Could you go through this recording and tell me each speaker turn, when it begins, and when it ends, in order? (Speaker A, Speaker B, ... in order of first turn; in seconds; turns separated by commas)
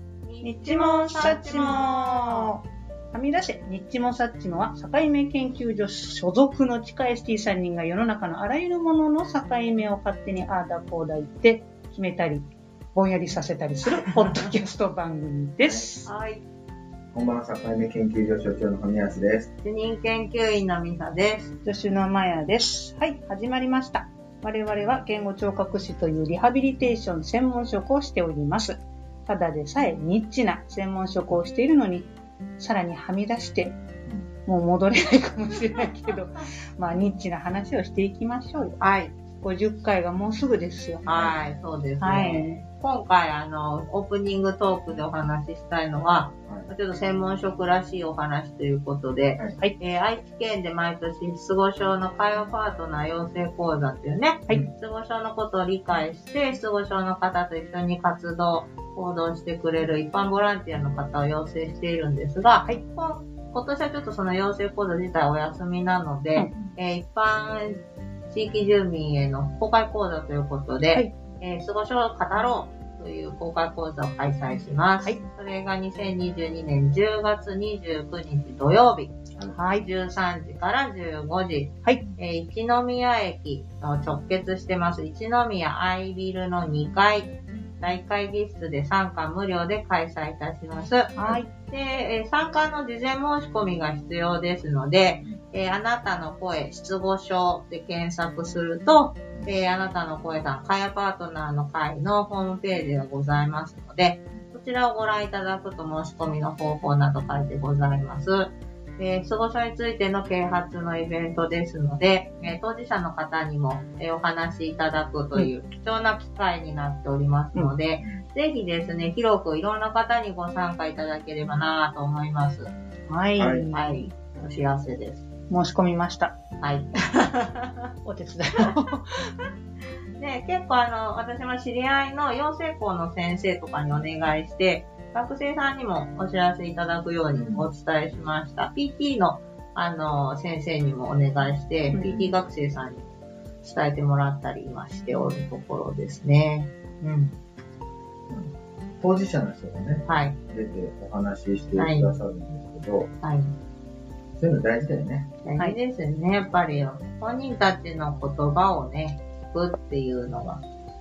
Speaker A: 0.2-2.5, Speaker B: 0.4-16.1, Speaker A: 14.1-14.5, Speaker C: 15.6-15.9, Speaker A: 16.1-16.4, Speaker C: 17.1-19.5, Speaker A: 19.6-21.6, Speaker B: 21.6-33.8, Speaker B: 34.5-38.8, Speaker A: 38.8-39.1, Speaker B: 39.4-41.0, Speaker A: 41.0-122.7, Speaker C: 41.1-41.4, Speaker B: 42.0-42.6, Speaker B: 70.9-71.2, Speaker B: 79.5-79.9, Speaker B: 91.2-91.5, Speaker B: 123.1-124.1, Speaker C: 123.4-123.7, Speaker A: 123.7-125.3, Speaker B: 125.5-126.4, Speaker A: 126.6-127.8, Speaker B: 128.1-129.2, Speaker A: 130.2-147.4, Speaker C: 137.3-137.7, Speaker C: 142.1-142.3, Speaker C: 148.3-153.1, Speaker A: 150.1-150.4, Speaker A: 151.8-152.1, Speaker A: 153.2-153.6, Speaker C: 154.4-155.3, Speaker A: 155.4-160.6